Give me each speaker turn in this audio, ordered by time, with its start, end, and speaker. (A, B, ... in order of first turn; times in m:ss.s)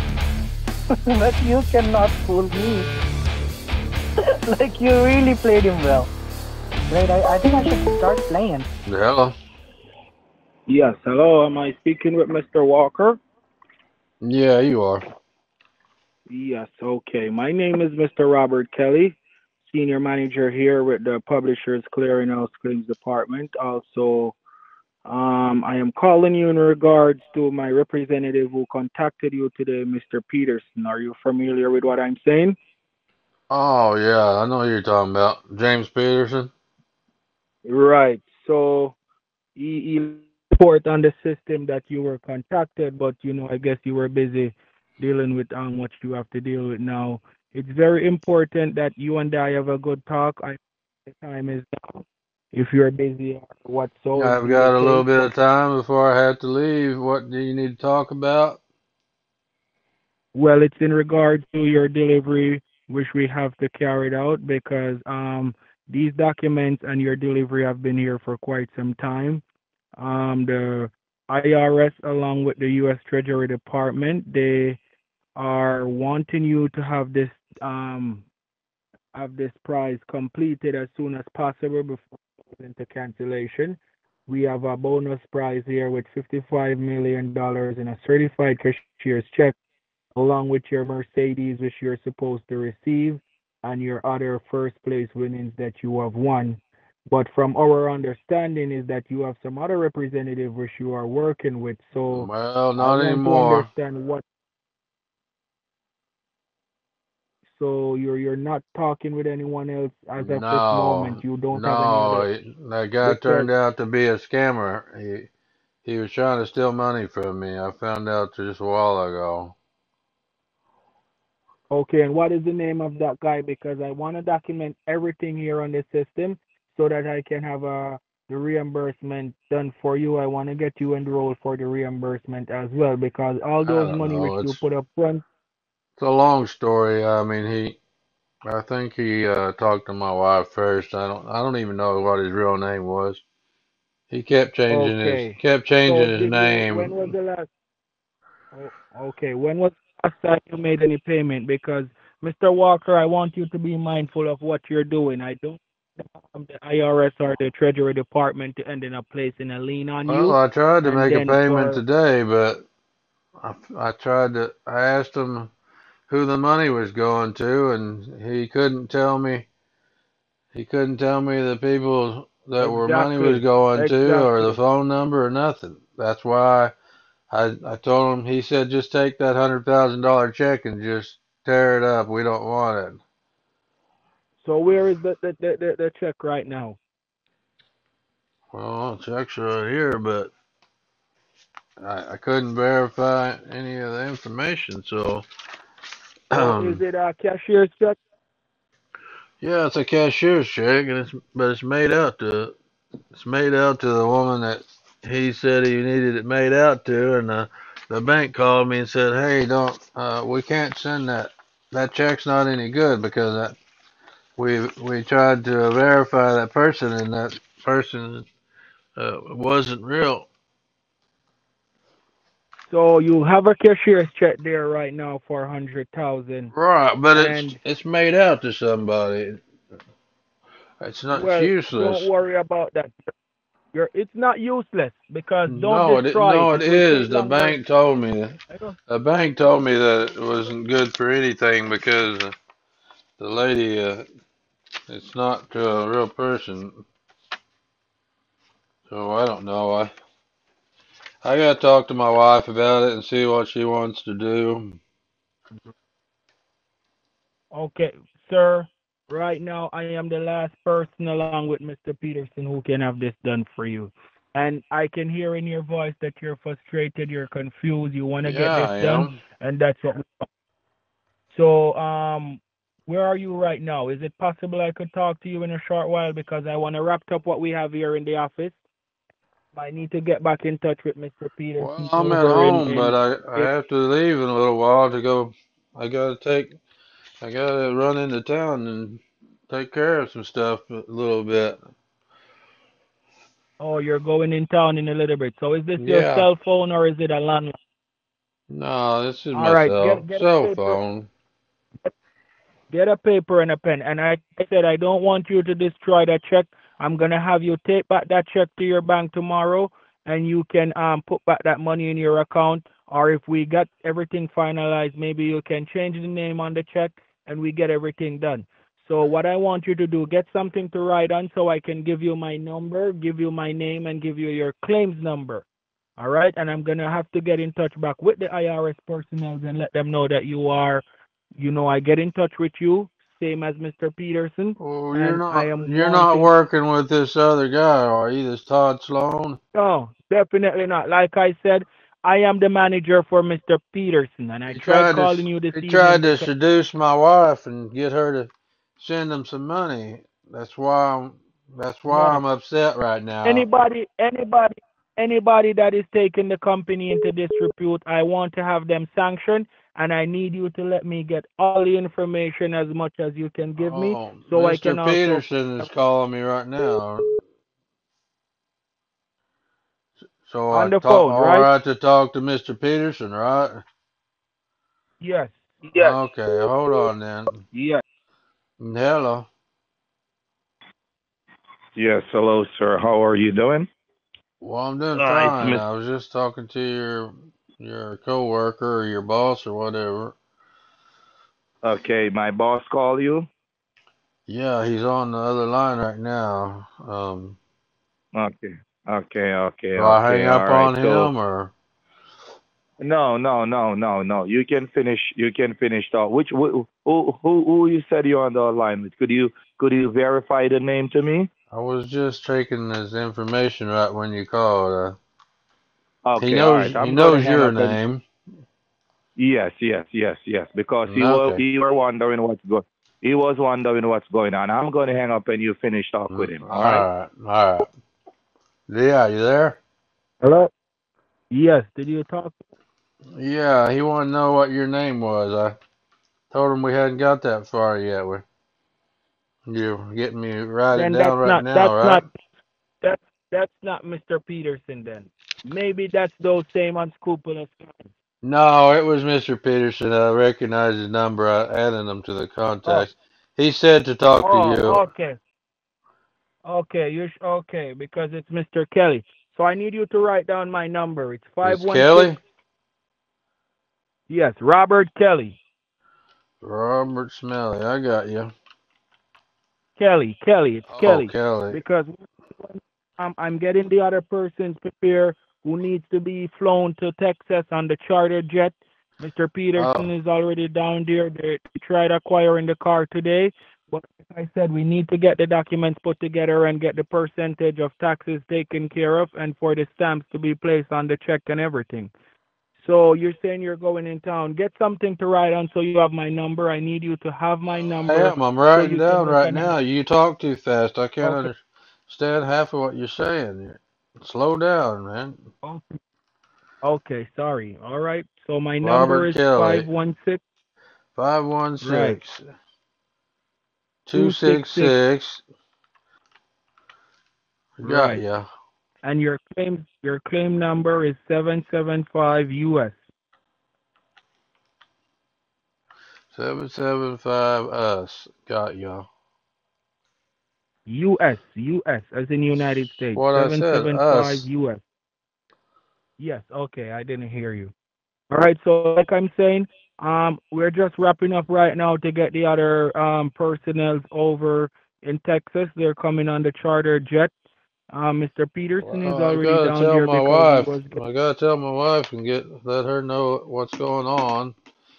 0:01.1-0:02.9 A
0:04.5-0:06.1 A
0:06.9-0:08.7 A
0:08.8-0:09.3 B
0:10.7-0:13.2 C
0:14.2-0:15.0 B
0:16.3-0:19.2 C
0:19.7-0:24.4 C
0:25.0-0:32.6 C
0:33.5-0:36.5 B
0:37.6-0:38.9 C
0:39.6-0:55.3 C
0:54.1-0:58.6 B
1:00.3-1:09.4 C
1:10.0-1:14.8 C
1:15.4-1:18.2 C
1:19.1-1:29.6 C
1:30.1-1:44.2 C
1:42.1-1:43.7 B
1:47.5-1:52.3 C
1:50.2-1:55.3 B
1:53.0-1:53.5 C
1:55.8-1:59.5 B
2:01.7-2:15.2 C
2:13.6-2:14.6 B
2:16.0-2:17.8 B
2:18.4-2:23.2 B
2:24.1-2:27.1 B
2:24.7-2:27.5 C
2:28.5-2:41.8 C
2:40.0-2:42.6 B
2:43.4-2:45.5 B
2:46.1-2:49.5 B
2:50.5-2:56.7 B
2:52.6-2:54.6 C
2:57.3-3:03.0 B
3:04.4-3:06.8 C
3:08.5-3:10.3 B
3:11.8-3:15.2 B
3:16.3-3:16.8 B
3:16.3-3:18.0 C
3:19.4-3:22.5 B
3:23.1-3:33.6 B
3:34.4-3:38.3 B
3:39.0-3:40.3 B
3:42.7-3:46.5 C
3:46.5-3:49.4 B
3:47.1-3:47.6 C
3:50.8-3:52.1 B
3:51.1-3:53.1 C
3:53.7-3:57.6 C
3:55.5-3:58.4 B
3:58.5-3:58.8 C
3:58.9-4:02.3 B
4:03.2-4:04.0 B
4:04.9-4:06.8 B
4:08.9-4:09.9 B
4:11.2-4:14.8 B
4:17.5-4:30.3 C
4:28.2-4:29.2 B
4:31.3-4:38.6 C
4:39.5-4:43.5 C
4:41.6-4:46.6 B
4:47.2-4:51.6 B
4:53.6-4:57.5 C
4:55.8-4:56.3 B
4:58.5-5:01.1 B
4:59.3-5:00.8 C
5:02.7-5:25.4 C
5:26.0-5:30.8 C
5:31.4-5:36.3 C
5:34.6-5:39.4 B
5:39.5-5:46.3 C
5:44.5-5:53.4 B
5:51.9-5:52.2 C
5:53.2-6:05.7 C
6:03.6-6:07.1 B
6:10.2-6:13.6 B
6:10.5-6:11.5 C
6:15.0-6:16.0 C
6:15.8-6:17.4 B
6:17.5-6:17.8 C
6:18.6-6:19.3 B
6:21.8-6:23.7 D
6:24.4-6:30.1 B
6:24.9-6:25.6 D
6:31.6-6:33.3 D
6:34.3-6:37.4 B
6:38.1-6:41.1 D
6:39.8-6:41.5 B
6:42.8-6:51.3 D
6:51.5-6:55.0 B
6:56.0-6:57.8 D
6:56.2-6:58.0 B
6:59.2-7:06.8 D
7:00.8-7:01.4 B
7:06.1-7:07.7 B
7:08.7-7:09.6 B
7:10.2-7:10.5 C
7:11.3-7:12.4 C
7:13.1-7:15.6 B
7:16.3-7:18.2 B
7:19.5-7:22.0 B
7:20.7-7:22.1 C
7:22.8-7:27.9 C
7:28.2-7:34.8 B
7:34.2-7:35.2 C
7:36.4-7:42.2 C
7:41.4-7:42.2 B
7:44.1-7:45.4 C
7:46.4-7:48.3 B
7:49.8-8:11.9 C
7:50.7-7:51.6 B
7:59.6-7:59.9 B
8:12.6-8:19.6 C
8:17.8-8:25.2 B
8:21.0-8:21.3 C
8:25.4-8:25.8 C
8:26.6-8:30.2 C
8:28.6-8:29.6 B
8:30.9-8:32.2 B
8:31.6-8:32.0 C
8:33.8-8:35.2 B
8:33.9-8:34.8 C
8:37.6-8:38.3 B
8:37.6-8:38.0 C
8:38.8-8:42.8 C
8:46.1-8:48.9 B
8:50.7-8:54.6 C
8:52.9-8:54.3 B
8:56.0-8:57.5 C
8:58.1-9:07.1 C
9:07.7-9:10.8 C
9:08.6-9:14.3 B